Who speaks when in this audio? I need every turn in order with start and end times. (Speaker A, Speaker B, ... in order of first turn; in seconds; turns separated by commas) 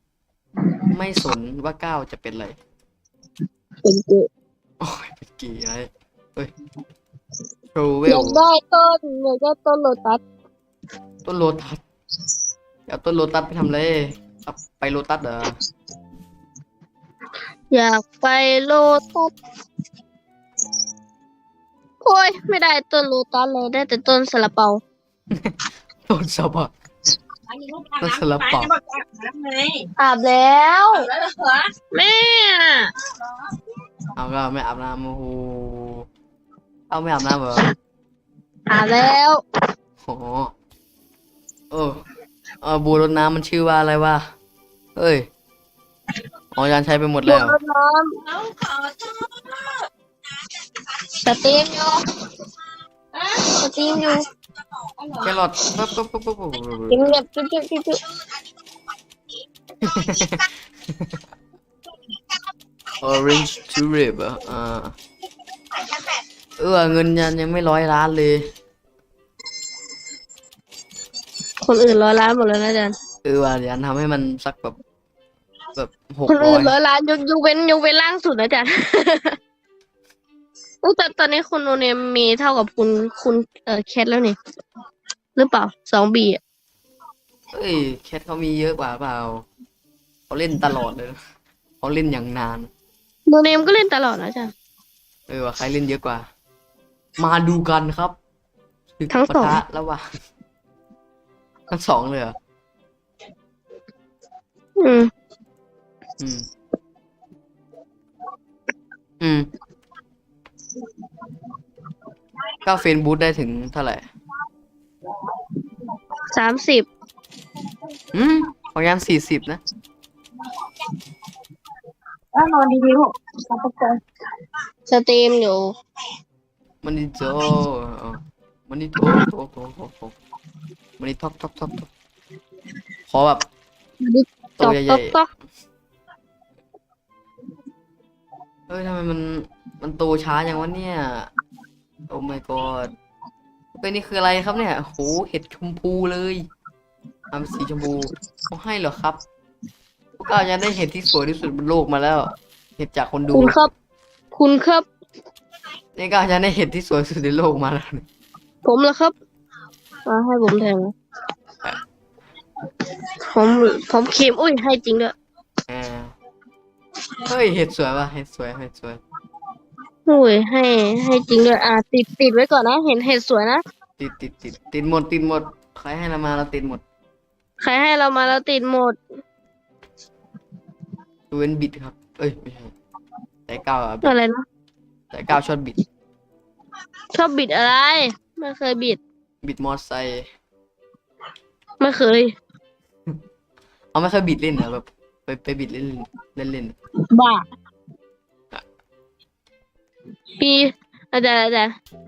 Speaker A: 0.9-2.6, Speaker B: 3.8-4.3, Speaker A: 4.8-6.5, Speaker A: 7.7-8.4, Speaker B: 8.1-10.2, Speaker A: 11.2-11.8, Speaker A: 12.9-15.5, Speaker B: 17.7-19.3, Speaker B: 22.0-24.8, Speaker A: 25.3-26.7, Speaker C: 27.6-29.9, Speaker A: 28.0-28.7, Speaker B: 30.0-31.1, Speaker B: 31.9-32.9, Speaker A: 34.1-36.1, Speaker A: 36.9-37.6, Speaker B: 38.7-39.4, Speaker A: 40.0-40.5, Speaker A: 41.7-42.0, Speaker A: 42.6-44.2, Speaker A: 45.0-45.3, Speaker A: 46.5-47.5, Speaker B: 47.3-48.2, Speaker C: 48.4-49.3, Speaker B: 51.1-52.0, Speaker B: 53.4-54.2, Speaker A: 55.2-57.1, Speaker B: 56.9-58.0, Speaker A: 59.8-60.5, Speaker A: 63.0-65.0, Speaker A: 66.6-68.5, Speaker B: 71.6-73.0, Speaker A: 73.2-74.8, Speaker A: 75.8-76.8, Speaker B: 76.3-79.4, Speaker B: 80.8-84.4, Speaker B: 85.3-86.4, Speaker A: 87.5-89.5, Speaker A: 90.3-91.2, Speaker A: 91.8-92.7, Speaker B: 93.3-94.5, Speaker A: 95.3-96.3, Speaker A: 97.2-98.2, Speaker A: 99.0-100.0, Speaker B: 99.1-99.5, Speaker A: 101.7-102.3, Speaker B: 104.8-105.1, Speaker A: 106.2-106.5, Speaker A: 109.2-109.5, Speaker A: 112.6-114.0, Speaker B: 116.3-116.9, Speaker A: 118.1-119.6, Speaker C: 122.3-123.1, Speaker B: 124.9-125.7, Speaker A: 126.8-130.1, Speaker A: 131.0-131.9, Speaker A: 133.1-133.4, Speaker B: 134.0-135.3, Speaker A: 134.6-135.1, Speaker A: 138.7-141.3, Speaker A: 142.1-142.9, Speaker A: 143.8-146.4, Speaker A: 147.3-149.2, Speaker A: 150.2-153.7, Speaker B: 153.3-153.7, Speaker B: 154.3-154.8, Speaker A: 155.9-158.0, Speaker B: 158.6-159.1, Speaker B: 160.1-160.9, Speaker B: 162.8-165.1, Speaker A: 165.7-166.1, Speaker A: 167.3-169.0, Speaker B: 170.1-173.6, Speaker A: 174.0-176.8, Speaker B: 177.6-179.0, Speaker A: 181.3-182.7, Speaker A: 183.5-184.1, Speaker B: 184.0-184.4, Speaker A: 185.1-185.8, Speaker B: 187.1-189.0, Speaker A: 189.4-190.2, Speaker B: 191.8-192.3, Speaker A: 193.9-196.7, Speaker B: 197.1-197.4, Speaker B: 200.4-201.7